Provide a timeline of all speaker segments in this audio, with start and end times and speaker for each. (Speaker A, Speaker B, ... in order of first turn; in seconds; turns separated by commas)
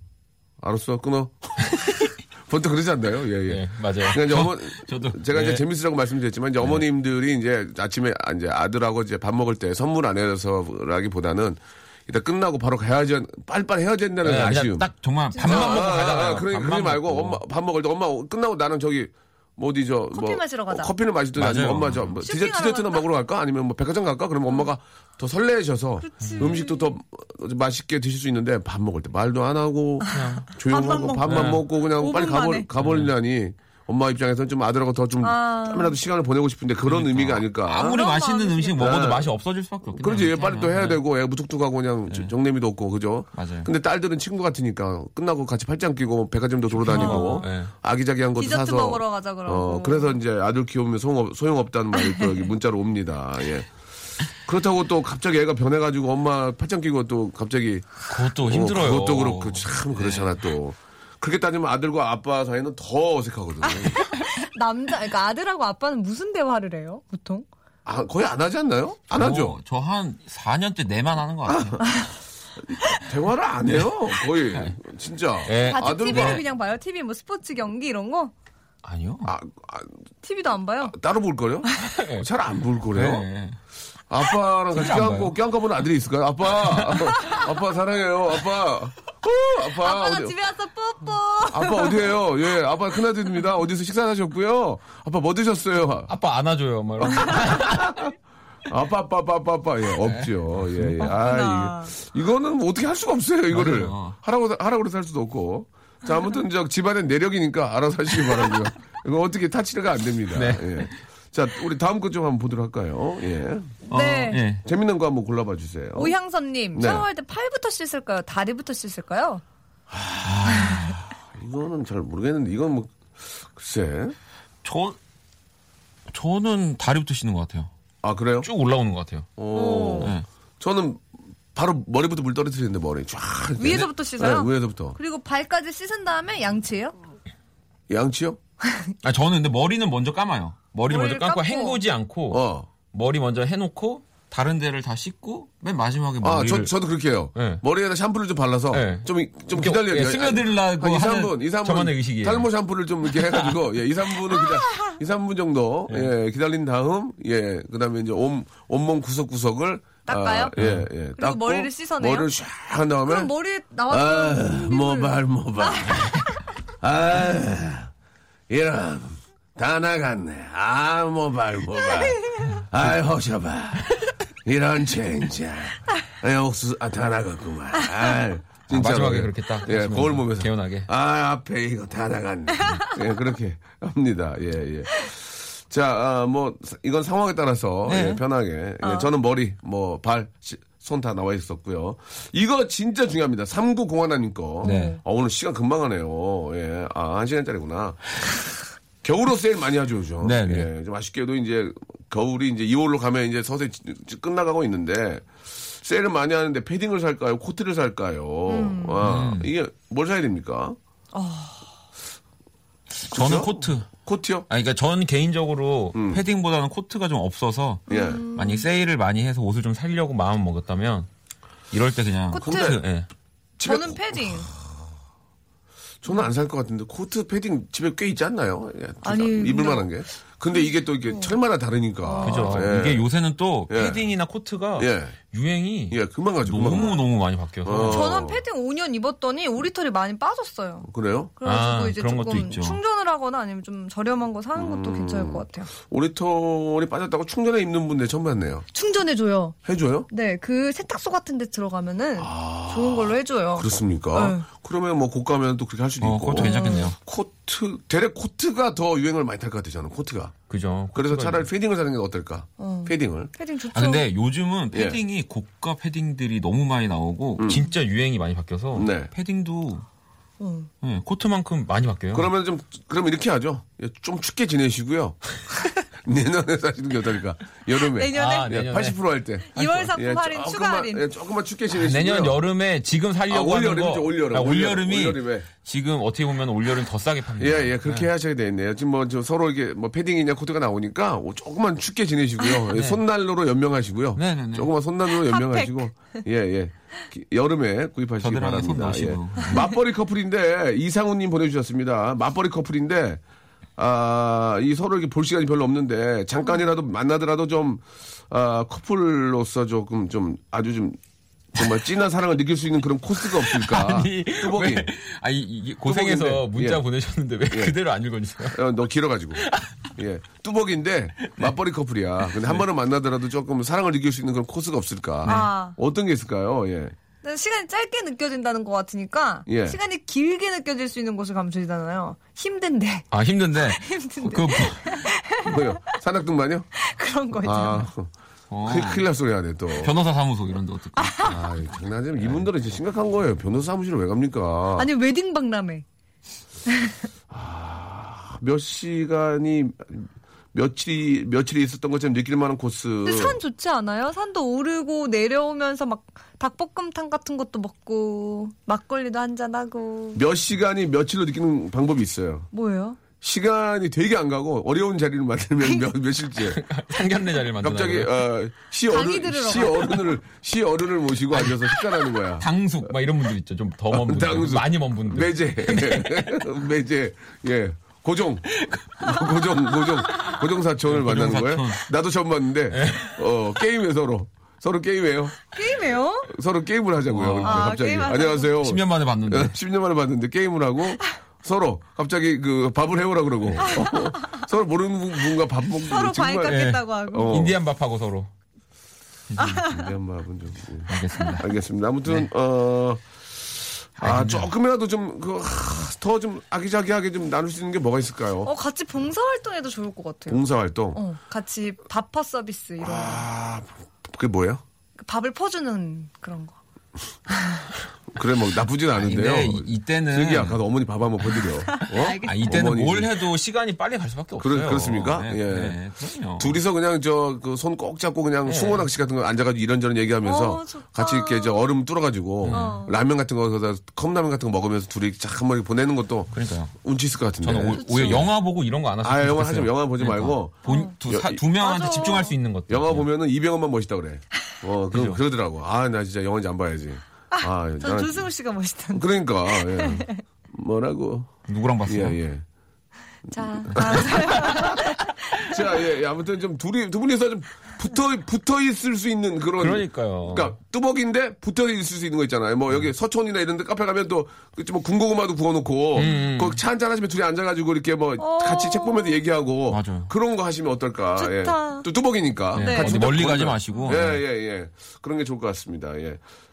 Speaker A: 0.6-14.9, Speaker B: 3.5-5.6, Speaker B: 14.2-17.4, Speaker C: 15.3-15.9, Speaker A: 15.4-38.0, Speaker C: 20.1-20.9, Speaker B: 21.4-22.1, Speaker C: 22.2-23.1, Speaker C: 26.0-26.9, Speaker B: 26.2-26.5, Speaker C: 30.0-32.7, Speaker B: 30.1-30.5, Speaker B: 31.2-31.6, Speaker B: 32.8-33.1, Speaker C: 35.2-36.0, Speaker B: 36.8-41.0, Speaker C: 37.7-39.0, Speaker A: 38.8-39.3, Speaker A: 40.0-53.7, Speaker B: 43.3-43.7, Speaker B: 46.8-47.7, Speaker C: 46.9-47.5, Speaker C: 48.4-50.2, Speaker C: 52.1-52.4, Speaker A: 54.4-64.1, Speaker B: 58.1-60.4, Speaker C: 63.7-67.5, Speaker A: 67.8-69.6, Speaker B: 69.1-71.8, Speaker A: 71.5-71.8, Speaker A: 72.6-76.4, Speaker B: 73.6-74.8, Speaker B: 75.4-76.4, Speaker C: 75.6-78.3, Speaker B: 78.8-79.3, Speaker A: 79.2-79.9, Speaker C: 80.2-80.9, Speaker A: 80.8-83.3, Speaker B: 81.8-82.3, Speaker B: 82.9-83.6, Speaker A: 84.1-90.3, Speaker B: 84.7-85.3, Speaker B: 86.5-87.4, Speaker C: 89.8-92.2, Speaker A: 91.5-96.1, Speaker B: 96.1-98.1, Speaker A: 97.0-98.1, Speaker A: 98.7-113.8, Speaker B: 100.0-101.0, Speaker C: 101.0-101.9, Speaker B: 103.5-104.2, Speaker B: 110.3-111.0, Speaker B: 113.9-114.6, Speaker C: 113.9-114.4, Speaker A: 114.6-116.1, Speaker C: 116.0-119.4, Speaker A: 116.7-117.0, Speaker A: 119.9-124.2, Speaker B: 120.2-121.0, Speaker B: 124.6-125.0, Speaker B: 126.1-127.7, Speaker A: 128.0-128.5, Speaker B: 128.4-129.3, Speaker A: 129.4-131.0, Speaker C: 129.5-130.1, Speaker B: 130.0-130.2, Speaker A: 131.5-135.0, Speaker C: 133.6-136.9, Speaker A: 137.9-138.4, Speaker B: 139.0-146.7, Speaker C: 140.9-141.8, Speaker A: 142.3-142.7, Speaker A: 146.2-163.3, Speaker B: 147.3-147.6, Speaker B: 148.7-152.5, Speaker B: 153.0-153.6, Speaker C: 154.5-154.9, Speaker C: 160.1-160.6, Speaker B: 160.6-160.9, Speaker C: 161.2-162.3, Speaker C: 163.1-166.4, Speaker A: 163.9-166.2, Speaker A: 166.8-167.9, Speaker A: 168.5-198.3, Speaker C: 172.0-172.6, Speaker B: 178.7-180.9, Speaker B: 187.8-188.2, Speaker C: 188.8-189.1, Speaker C: 194.6-195.0, Speaker B: 194.6-195.0, Speaker A: 199.0-210.8, Speaker B: 200.2-200.7, Speaker C: 208.5-209.0, Speaker B: 209.0-209.5, Speaker C: 211.1-211.6, Speaker B: 213.0-221.1, Speaker A: 213.1-214.5, Speaker A: 215.9-216.2, Speaker A: 217.9-218.2, Speaker C: 217.9-218.7, Speaker B: 221.7-223.1, Speaker C: 222.3-222.8, Speaker A: 222.4-222.8, Speaker A: 223.6-224.5, Speaker C: 223.6-224.5, Speaker A: 226.0-233.1, Speaker C: 229.0-229.9, Speaker C: 231.1-231.3, Speaker C: 232.0-232.7, Speaker B: 232.2-238.1, Speaker A: 233.7-234.0, Speaker A: 234.8-235.2, Speaker A: 235.9-237.0, Speaker C: 236.6-237.0, Speaker A: 237.6-238.4, Speaker C: 237.8-245.7, Speaker A: 240.8-241.3, Speaker B: 241.4-242.8, Speaker A: 244.6-248.7, Speaker C: 248.7-249.5, Speaker A: 249.6-250.1, Speaker C: 250.1-254.4, Speaker A: 252.2-260.3, Speaker B: 256.0-257.0, Speaker C: 256.4-256.9, Speaker B: 260.5-261.5, Speaker A: 260.9-263.3, Speaker C: 262.6-264.1, Speaker B: 263.7-269.8, Speaker A: 264.7-265.0, Speaker A: 267.4-267.6, Speaker A: 268.7-269.1, Speaker C: 270.4-270.7, Speaker B: 270.8-272.3, Speaker A: 272.1-275.4, Speaker A: 275.9-282.4, Speaker C: 277.9-278.7, Speaker B: 278.1-279.0, Speaker C: 279.5-281.1, Speaker B: 279.5-279.9, Speaker B: 281.7-288.1, Speaker A: 283.3-285.5, Speaker A: 287.4-303.2, Speaker B: 292.7-293.0, Speaker B: 294.1-294.7, Speaker C: 295.1-295.9, Speaker B: 298.2-299.6, Speaker A: 303.8-311.0, Speaker A: 311.5-314.9, Speaker B: 313.2-318.6, Speaker A: 315.8-316.8, Speaker A: 317.5-317.8, Speaker A: 318.4-326.9, Speaker B: 319.4-319.9, Speaker B: 321.2-321.5, Speaker B: 325.2-325.5, Speaker C: 325.2-325.8, Speaker C: 327.2-335.9, Speaker A: 329.5-329.8, Speaker B: 333.1-335.1, Speaker A: 335.4-336.6, Speaker C: 336.8-337.9, Speaker A: 337.4-338.1, Speaker B: 338.5-339.1, Speaker A: 338.6-339.9, Speaker B: 339.8-341.3, Speaker C: 341.0-341.4, Speaker A: 341.2-344.9, Speaker C: 344.7-345.8, Speaker C: 346.7-347.0, Speaker A: 347.3-353.4, Speaker C: 353.0-360.2, Speaker A: 360.1-362.5, Speaker C: 362.5-363.0, Speaker A: 363.2-366.6, Speaker B: 366.4-368.1, Speaker A: 367.6-372.4, Speaker C: 368.9-370.0, Speaker B: 371.3-376.4, Speaker A: 373.9-385.4, Speaker B: 378.5-381.9, Speaker B: 382.7-383.2, Speaker C: 385.5-386.3, Speaker A: 386.3-397.6, Speaker B: 387.1-387.8, Speaker C: 387.4-388.5, Speaker B: 388.6-389.6, Speaker C: 393.7-394.2, Speaker C: 395.7-397.4, Speaker B: 396.4-398.3, Speaker B: 399.3-399.6, Speaker C: 399.4-399.9, Speaker A: 399.6-408.5, Speaker B: 400.9-401.5, Speaker B: 404.0-404.5, Speaker C: 408.4-410.4, Speaker A: 410.3-411.0, Speaker C: 410.9-413.2, Speaker A: 412.8-414.6, Speaker C: 415.0-416.6, Speaker C: 417.3-417.7, Speaker A: 418.1-423.1, Speaker B: 418.9-420.6, Speaker C: 421.7-422.6, Speaker B: 422.2-426.6, Speaker A: 424.4-425.8, Speaker A: 426.4-438.3, Speaker B: 428.4-428.9, Speaker C: 430.2-431.6, Speaker B: 432.4-432.8, Speaker C: 432.5-432.9, Speaker B: 436.3-436.7, Speaker B: 437.4-443.1, Speaker C: 437.8-438.2, Speaker A: 439.0-441.4, Speaker C: 440.6-440.9, Speaker C: 441.5-442.3, Speaker A: 442.7-448.3, Speaker B: 444.9-445.2, Speaker C: 447.3-450.2, Speaker A: 448.9-451.3, Speaker B: 451.5-452.2, Speaker A: 451.9-452.4, Speaker C: 453.3-455.4, Speaker A: 453.6-476.2, Speaker B: 453.7-454.1, Speaker B: 459.6-460.5, Speaker B: 465.9-466.6, Speaker C: 468.2-469.2, Speaker B: 469.7-470.1, Speaker C: 471.2-471.9, Speaker C: 472.5-473.1, Speaker B: 472.5-474.2, Speaker C: 473.7-473.9